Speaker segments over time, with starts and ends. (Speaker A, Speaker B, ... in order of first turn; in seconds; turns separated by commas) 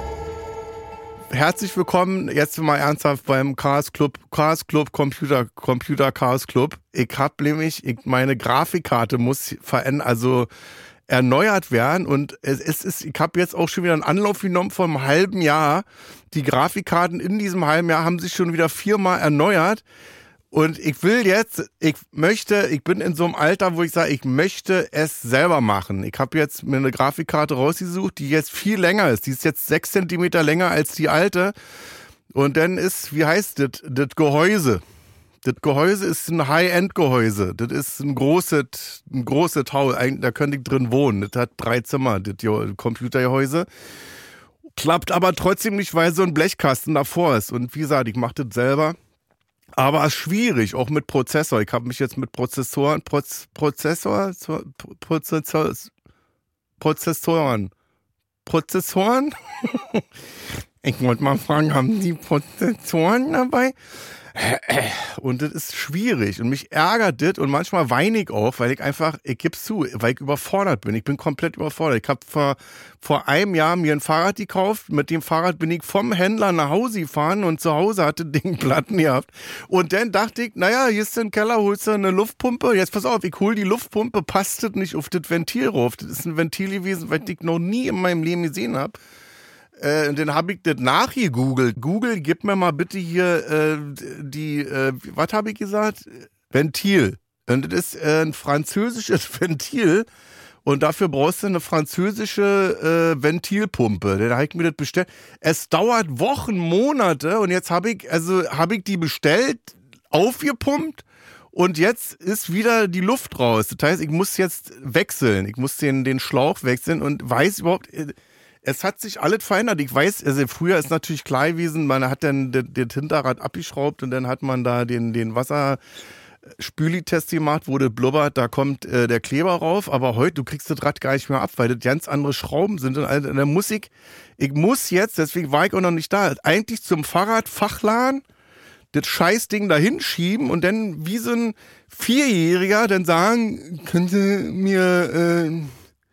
Speaker A: 1.3-10.5, Speaker A: 11.1-19.8, Speaker A: 20.5-31.5, Speaker A: 32.3-34.8, Speaker A: 35.4-43.7, Speaker A: 44.7-49.0, Speaker A: 49.8-55.9, Speaker A: 56.8-57.7, Speaker A: 58.4-60.0, Speaker A: 60.8-63.8, Speaker A: 64.3-89.0, Speaker A: 89.8-100.1, Speaker A: 100.6-125.8, Speaker A: 126.6-138.2, Speaker A: 138.9-145.8